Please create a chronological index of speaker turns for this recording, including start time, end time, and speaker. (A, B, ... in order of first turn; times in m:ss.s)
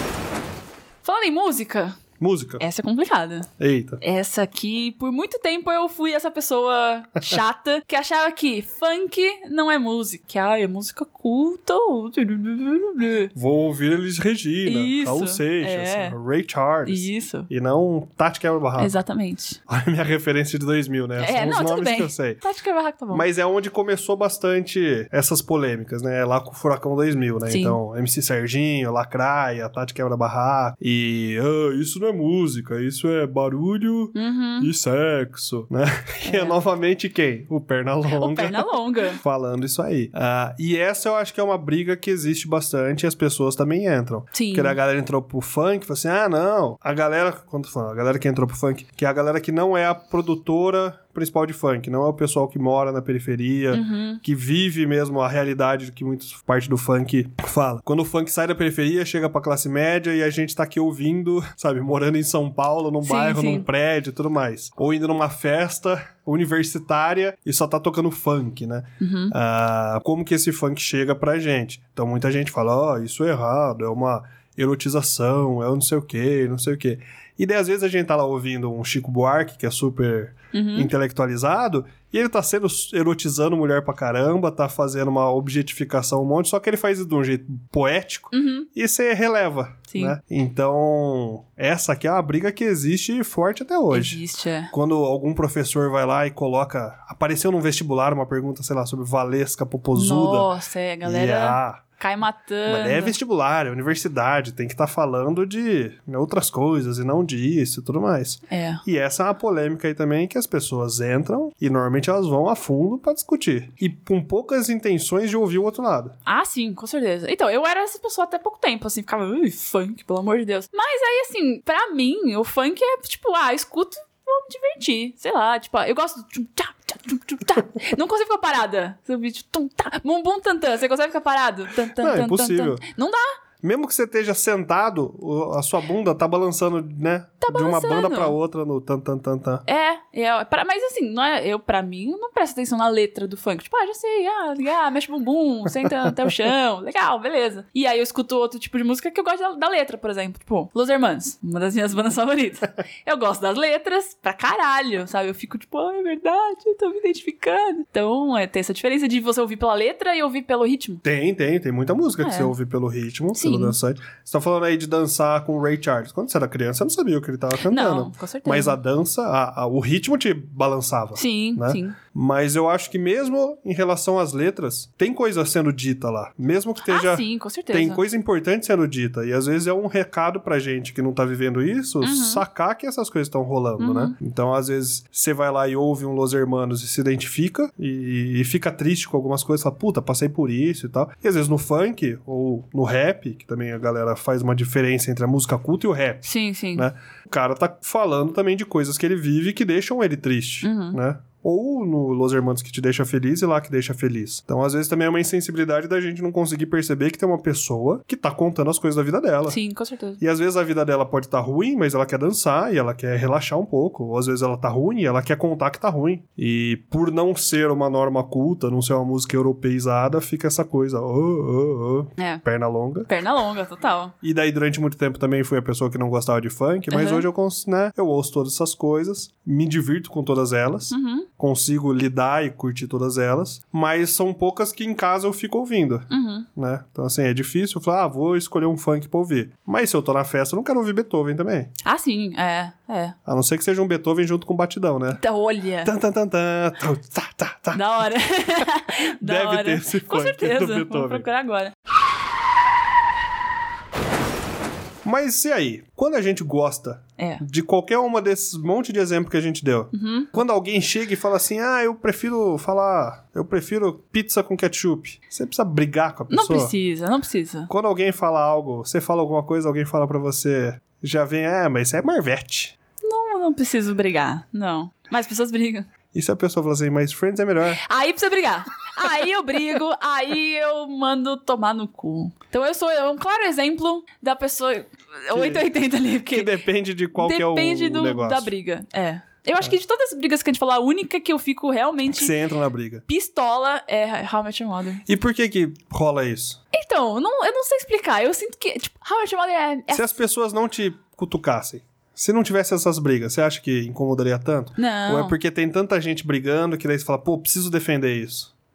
0:01.0-0:02.0 A
0:02.2-0:02.6 B
0:02.6-0:03.5 A
0:03.6-0:04.0 B
0:04.0-0:13.3 A
0:13.3-0:19.0 B
0:14.6-0:16.2 A
0:16.8-0:17.5 A
0:18.8-0:19.6 A
0:19.7-0:22.4 B
0:21.2-0:23.2 A
0:23.1-1:40.5 B
0:27.5-0:27.8 A
0:34.1-0:34.7 A
0:36.2-0:36.6 A
0:38.1-0:39.2 A
0:44.3-0:44.8 A
0:53.7-0:54.2 A
1:03.0-1:03.7 A
1:09.0-1:09.3 A
1:20.5-1:20.9 A
1:28.3-1:28.7 A
1:29.9-1:30.2 A
1:33.9-1:34.7 A
1:39.9-1:43.1 A
1:41.0-1:41.8 B
1:42.6-1:56.1 B
1:48.5-1:48.8 A
1:56.2-2:13.4 A
2:12.0-2:12.8 B
2:13.6-2:19.6 B
2:17.4-2:18.3 A
2:19.6-2:41.0 A
2:41.0-3:29.6 B
2:42.2-2:42.5 A
2:43.3-2:43.8 A
2:47.6-2:48.8 A
2:51.1-2:52.0 A
2:56.8-2:58.0 A
3:02.0-3:02.4 A
3:03.8-3:04.1 A
3:16.2-3:16.9 A
3:20.6-3:21.0 A
3:29.5-3:30.2 A
3:30.2-3:43.1 B
3:42.2-3:42.4 A
3:43.0-3:44.1 A
3:44.2-4:01.7 B
3:46.9-3:47.2 A
3:50.9-3:51.3 A
3:56.1-3:56.5 A
4:01.8-4:03.2 A
4:03.2-4:05.2 B
4:05.2-4:05.9 A
4:05.8-4:08.0 B
4:07.7-4:11.7 A
4:09.2-4:11.3 B
4:15.0-4:26.7 B
4:17.2-4:17.4 A
4:19.9-4:20.3 A
4:26.3-4:27.7 A
4:27.7-4:32.7 B
4:33.0-4:35.9 A
4:36.1-4:37.8 B
4:37.8-4:46.5 A
4:45.3-4:48.5 B
4:47.2-4:52.3 A
4:52.1-4:53.0 B
4:53.1-4:55.0 A
4:55.0-4:56.6 B
4:56.7-5:00.2 A
4:59.9-5:08.5 B
5:04.8-5:05.4 A